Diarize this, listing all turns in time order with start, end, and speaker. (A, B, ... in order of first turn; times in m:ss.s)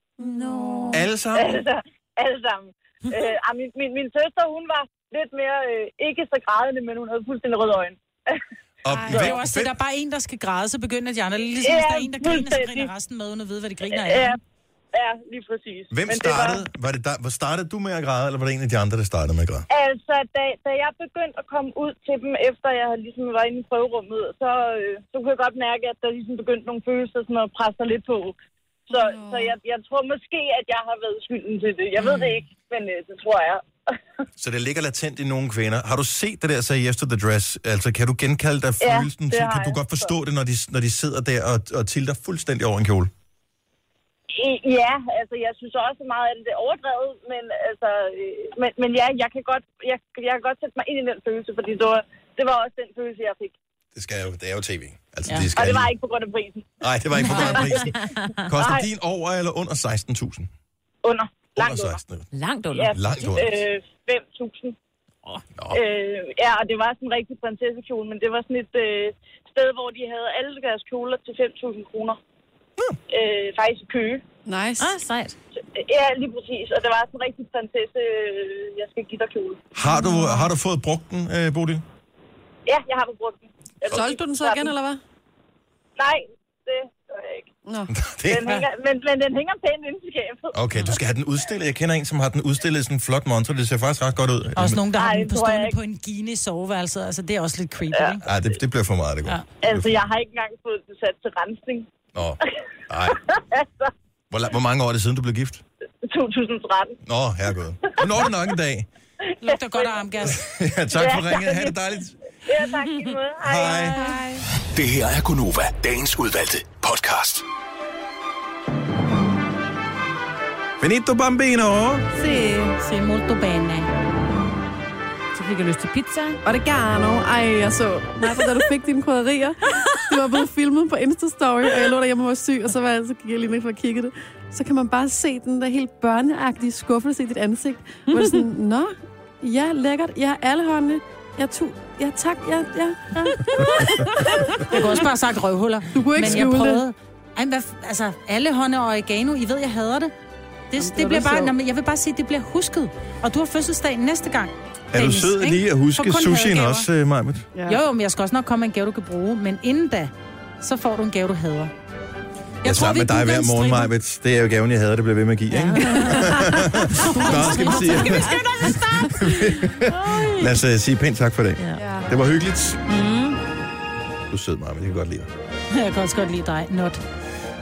0:00.2-0:01.0 A
0:00.2-0:01.0 B
0:00.9-0:01.6 C
0:01.4-0:08.4 D
0:08.8-0:09.7 C
0:08.9-0:09.3 A
0:09.1-0:14.4 E
0:11.6-0:12.9 D
0:13.9-0:14.4 D
0:14.9-0:16.6 D
0:15.9-0:19.7 C
0:19.7-0:28.4 D
0:28.9-0:33.7 D
0:28.9-0:29.5 A
0:32.0-0:32.4 B
0:34.4-0:43.1 C
0:38.8-0:40.1 D
0:44.3-0:53.6 D
0:54.0-0:55.9 C
0:55.6-0:56.7 D
0:56.8-1:00.5 C
0:57.2-0:58.5 B
0:57.3-0:57.8 D
1:01.0-1:02.0 D
1:01.6-1:02.3 C
1:02.3-1:03.1 B
1:02.7-1:04.8 D
1:02.9-1:03.6 C
1:05.6-1:05.8 C
1:05.7-1:12.2 D
1:13.1-1:14.2 D
1:14.5-1:15.0 A
1:14.8-1:15.4 B
1:15.7-1:19.7 D
1:19.8-1:21.8 C
1:19.8-1:20.4 A
1:22.7-1:24.7 D
1:23.9-1:25.0 A
1:26.0-1:27.5 D
1:27.7-1:27.9 A
1:27.9-1:28.5 C
1:28.3-1:30.6 D
1:30.5-1:34.8 C
1:34.6-1:38.2 E
1:34.9-1:35.8 D
1:38.2-1:40.0 C
1:39.6-1:41.9 D
1:42.2-1:43.2 C
1:43.3-1:43.9 D
1:44.3-1:45.6 C
1:46.1-1:47.0 D
1:47.0-1:48.9 C
1:49.4-1:50.4 E
1:49.4-1:50.1 D
1:50.2-1:52.2 C
1:50.9-1:51.7 D
1:52.4-1:54.0 D
1:53.4-1:54.0 C
1:53.9-1:54.5 A
1:54.7-1:57.4 F
2:00.8-2:02.1 C
2:02.2-2:02.8 A
2:02.8-2:03.9 E
2:05.3-2:06.4 B
2:06.4-2:25.1 A
2:18.1-2:18.4 B
2:23.5-2:30.1 E
2:25.9-2:26.8 A
2:30.7-2:36.9 E
2:30.8-2:31.5 A
2:34.9-2:37.5 C
2:37.6-2:37.8 A
2:37.7-2:41.7 E
2:42.6-2:43.9 E
2:42.6-2:48.4 C
2:45.5-2:46.7 B
2:46.9-2:50.3 E
2:47.2-2:48.0 A
2:47.2-2:48.1 B
2:49.1-2:52.8 C
2:51.8-2:52.1 A
2:52.9-2:53.4 B
2:54.3-2:55.3 C
2:55.7-2:57.0 E